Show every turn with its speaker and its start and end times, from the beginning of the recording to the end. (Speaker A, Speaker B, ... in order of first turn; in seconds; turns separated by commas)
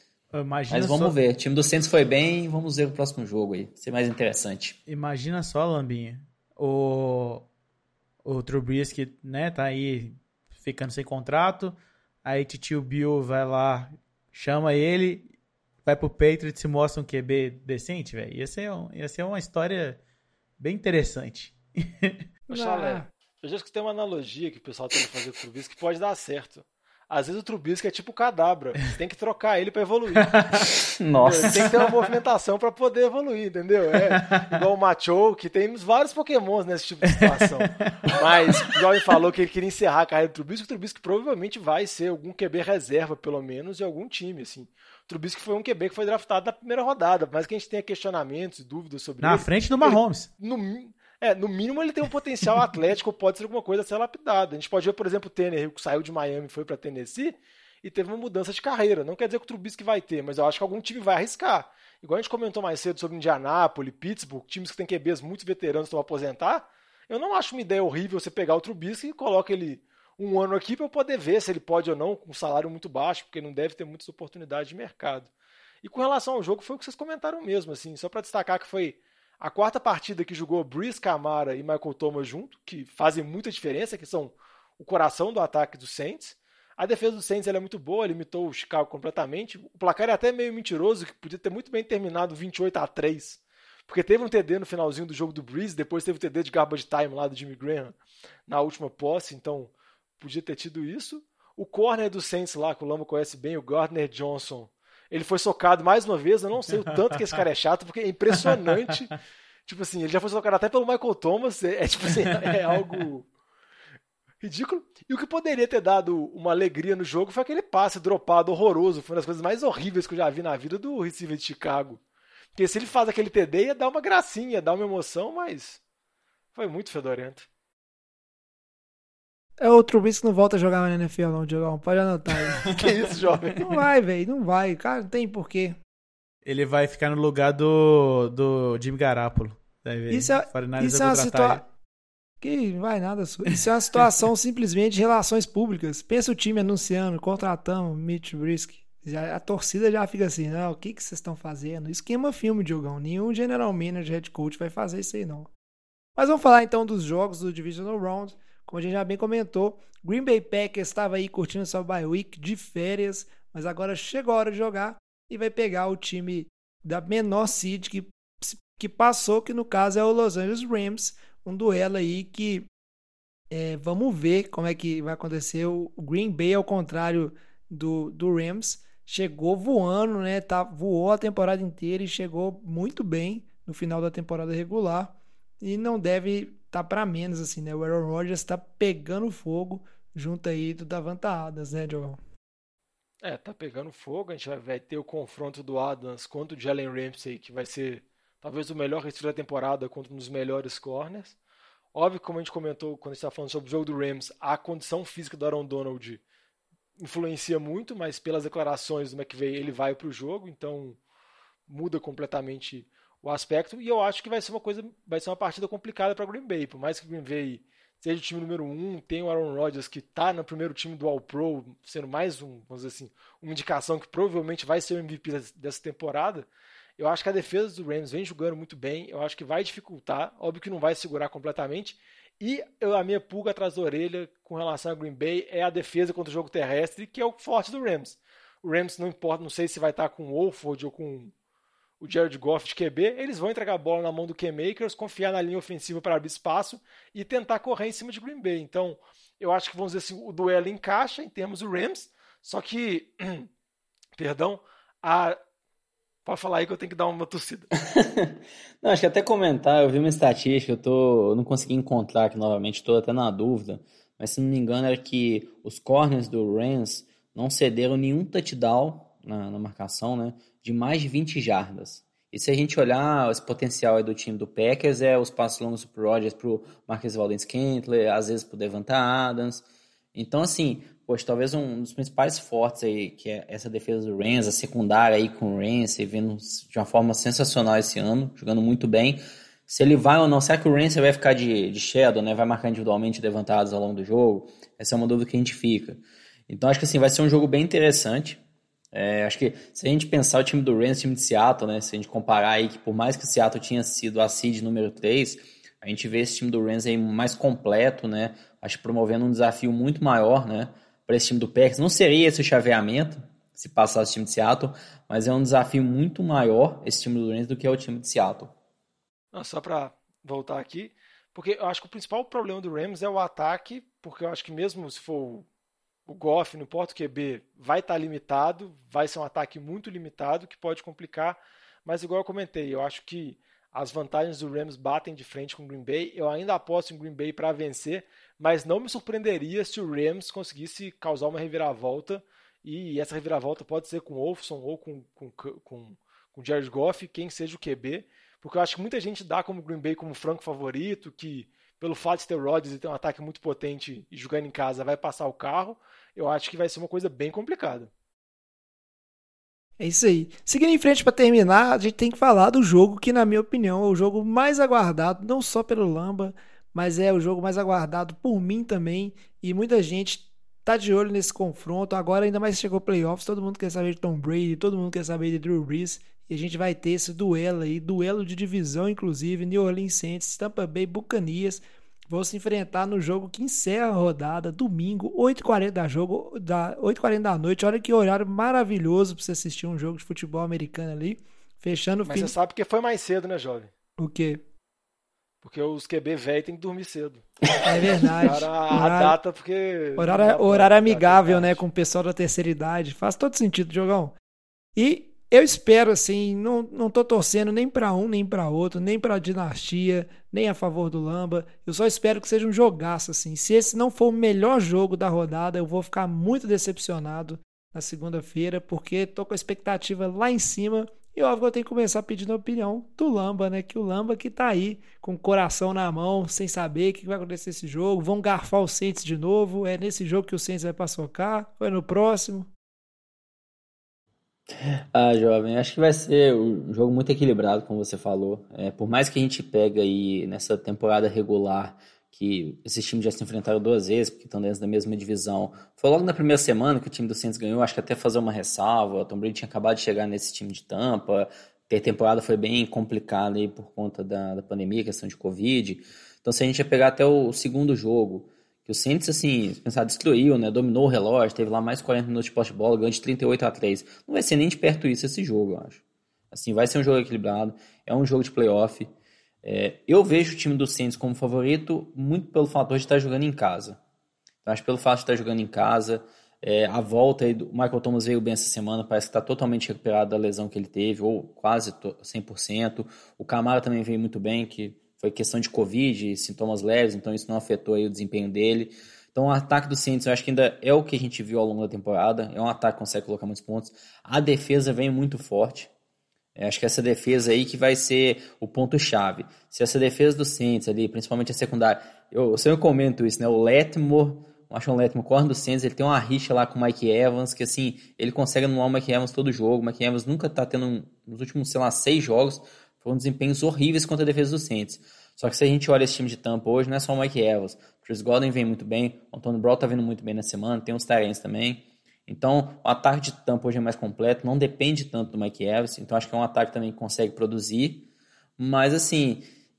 Speaker A: 0.3-1.1, Speaker B: 0.7-4.8, Speaker A: 4.9-7.5, Speaker A: 8.2-15.3, Speaker A: 15.8-20.0, Speaker A: 20.6-22.2, Speaker C: 22.5-30.3, Speaker D: 22.5-23.1, Speaker A: 30.1-30.6, Speaker B: 30.7-31.7, Speaker C: 31.2-75.3, Speaker A: 34.1-34.6, Speaker A: 37.2-38.7, Speaker A: 49.2-50.3, Speaker C: 75.8-98.0, Speaker C: 98.5-113.3, Speaker C: 114.4-122.0, Speaker C: 122.5-125.8, Speaker C: 126.5-127.5, Speaker D: 129.6-132.6, Speaker C: 132.6-133.6, Speaker D: 133.6-135.8, Speaker A: 136.4-141.6, Speaker D: 140.1-141.6, Speaker D: 142.4-155.5, Speaker D: 156.2-172.7, Speaker D: 173.5-192.2, Speaker C: 193.2-201.3, Speaker C: 201.9-206.2, Speaker C: 207.0-211.0, Speaker C: 211.7-226.4, Speaker C: 227.0-241.3, Speaker C: 242.0-253.5, Speaker C: 254.2-255.4, Speaker C: 256.2-257.7, Speaker B: 257.8-298.4, Speaker B: 298.9-318.5, Speaker C: 319.3-325.4, Speaker C: 326.1-357.9, Speaker D: 359.8-392.3, Speaker C: 392.1-393.7, Speaker D: 394.0-394.4, Speaker C: 395.4-397.2, Speaker D: 397.6-399.1, Speaker C: 398.0-401.6, Speaker D: 400.0-404.1, Speaker D: 404.8-432.5, Speaker B: 434.5-468.9, Speaker B: 469.4-473.8, Speaker B: 474.4-495.7, Speaker B: 496.4-527.9, Speaker B: 528.4-529.3